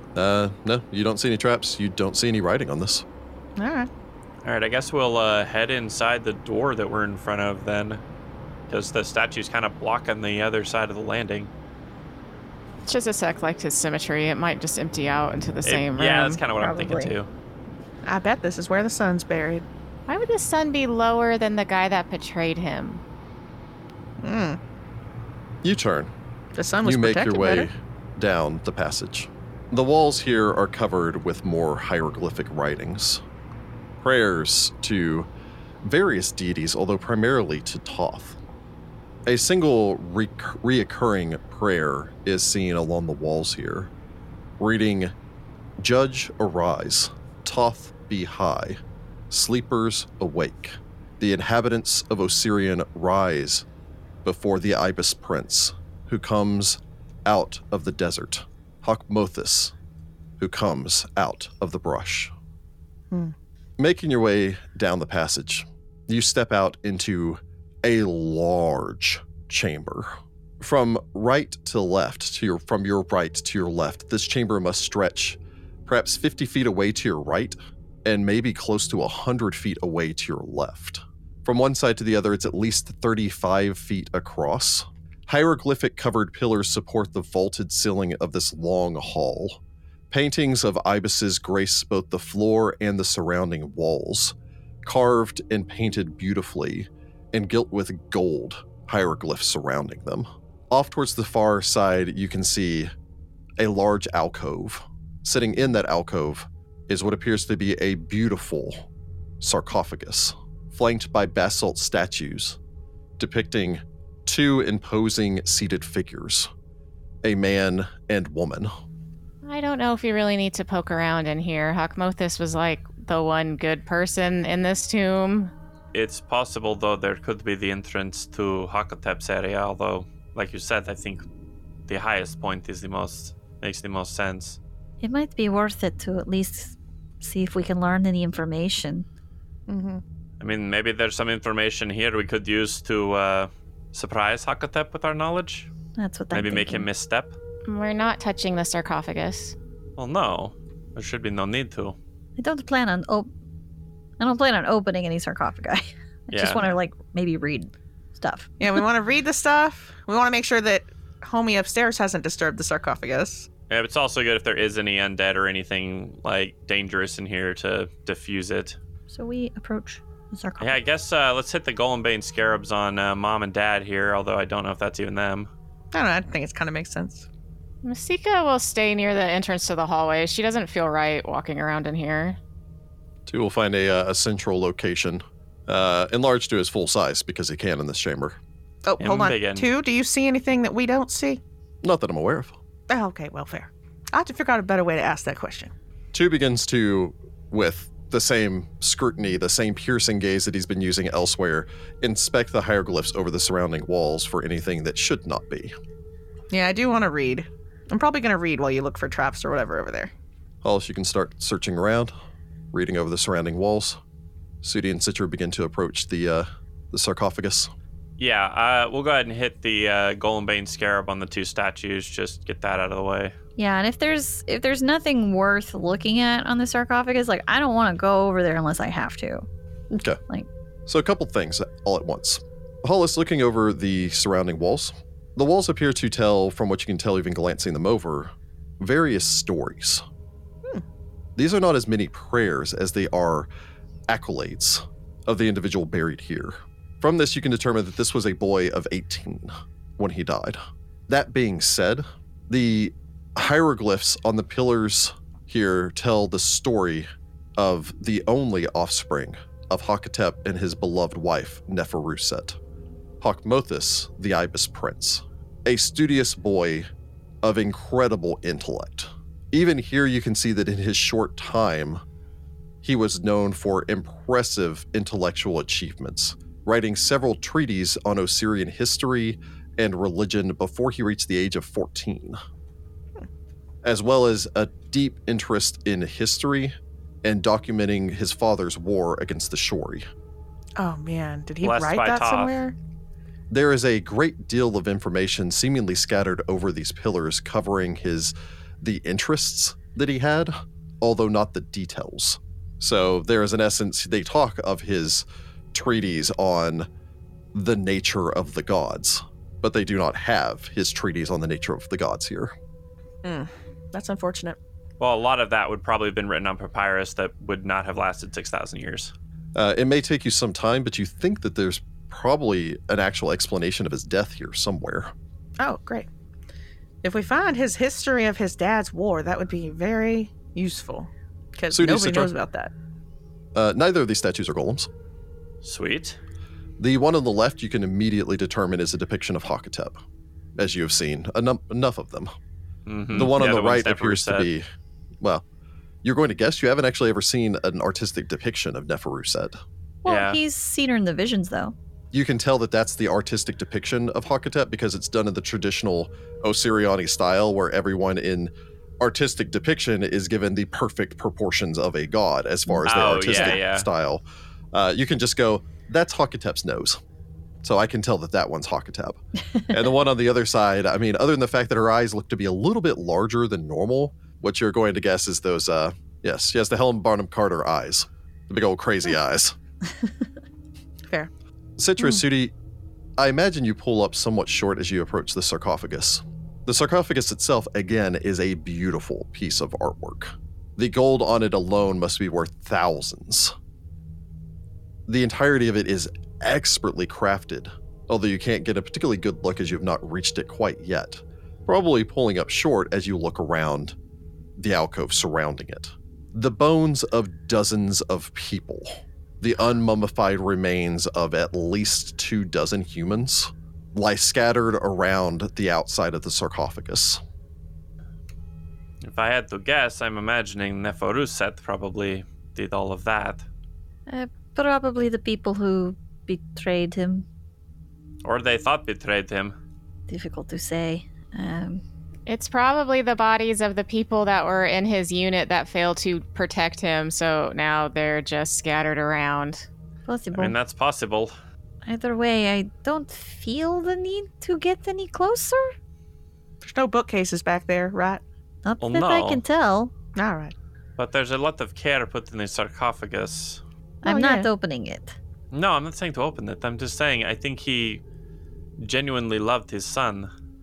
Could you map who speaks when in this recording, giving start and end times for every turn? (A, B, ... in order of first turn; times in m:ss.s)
0:00.1-0:03.0 A
0:03.6-0:03.9 B
0:04.4-0:08.0 C
0:08.7-0:11.5 C
0:12.9-0:16.4 D
0:15.6-0:17.3 C
0:16.6-0:17.1 E
0:18.0-0:19.6 B
0:20.1-0:23.0 D
0:24.2-0:24.6 B
0:25.6-0:26.1 A
0:26.5-0:27.7 B
0:26.8-0:33.2 A
0:34.0-0:35.3 A
0:35.8-0:38.4 A
0:39.3-0:43.9 A
0:44.6-0:45.1 A
0:45.8-0:48.8 A
0:49.3-0:53.6 A
0:54.2-0:59.7 A
1:00.4-1:02.3 A
1:03.8-1:42.9 A
1:43.6-1:48.9 A
1:49.4-1:52.6 A
1:53.2-1:56.5 A
1:57.2-1:58.7 A
1:59.4-2:05.5 D
2:05.9-2:11.2 C
2:11.9-2:14.6 C
2:15.0-2:19.0 E
2:19.7-2:20.0 B
2:20.4-2:25.7 C
2:26.0-2:26.9 E
2:26.3-2:27.4 C
2:27.7-2:29.5 D
2:30.0-2:32.0 C
2:32.4-2:33.3 E
2:34.2-2:38.8 E
2:36.3-2:36.7 C
2:38.6-2:43.5 B
2:43.7-2:48.8 C
2:49.1-2:50.8 E
2:50.6-2:55.5 C
2:55.9-2:57.3 B
2:57.8-3:02.4 D
3:03.2-3:08.4 A
3:08.8-3:11.4 B
3:09.0-3:09.7 C
3:11.8-3:12.6 A
3:12.9-3:15.7 B
3:16.1-3:25.7 A
3:26.5-3:30.1 B
3:30.6-3:32.1 A
3:32.7-3:34.0 A
3:34.6-3:37.7 A
3:38.2-3:43.3 C
3:43.6-3:49.4 E
3:49.9-3:50.2 A
3:50.9-4:00.0 A
4:01.4-4:03.5 A
4:04.1-4:22.6 A
4:23.2-4:26.9 A
4:27.4-4:32.0 A
4:32.8-4:42.4 A
4:43.8-4:50.0 A
4:50.8-4:52.7 B
4:51.6-4:52.6 C
4:53.5-5:06.9 A
5:07.5-5:12.5 A
5:13.2-5:14.6 B
5:15.0-5:19.1 C
5:19.5-5:25.1 A
5:25.6-5:26.1 B
5:27.0-5:32.7 B
5:31.7-5:32.3 A
5:33.5-5:34.9 A
5:35.6-5:36.2 C
5:36.8-5:40.0 A
5:40.6-5:42.3 A
5:42.8-5:44.5 C
5:43.1-5:44.7 A
5:46.0-5:49.5 A
5:50.0-5:51.7 E
5:50.0-5:50.4 C
5:52.1-6:07.0 A
6:02.7-6:03.5 E
6:02.8-6:03.9 C
6:07.6-6:19.6 A
6:21.8-6:22.5 A
6:23.2-6:33.5 A
6:35.1-6:44.0 A
6:44.6-6:57.2 A
6:59.0-7:03.4 C
7:04.1-7:07.2 E
7:08.2-7:09.5 C
7:10.1-7:11.8 E
7:12.3-7:19.6 D
7:20.0-7:20.5 E
7:20.3-7:21.3 C
7:21.8-7:25.7 E
7:26.6-7:28.2 B
7:28.6-7:29.9 E
7:28.8-7:29.4 C
7:30.1-7:30.5 B
7:31.0-7:33.6 C
7:34.0-7:35.2 E
7:34.0-7:34.5 B
7:35.5-7:38.0 C
7:38.8-7:40.3 C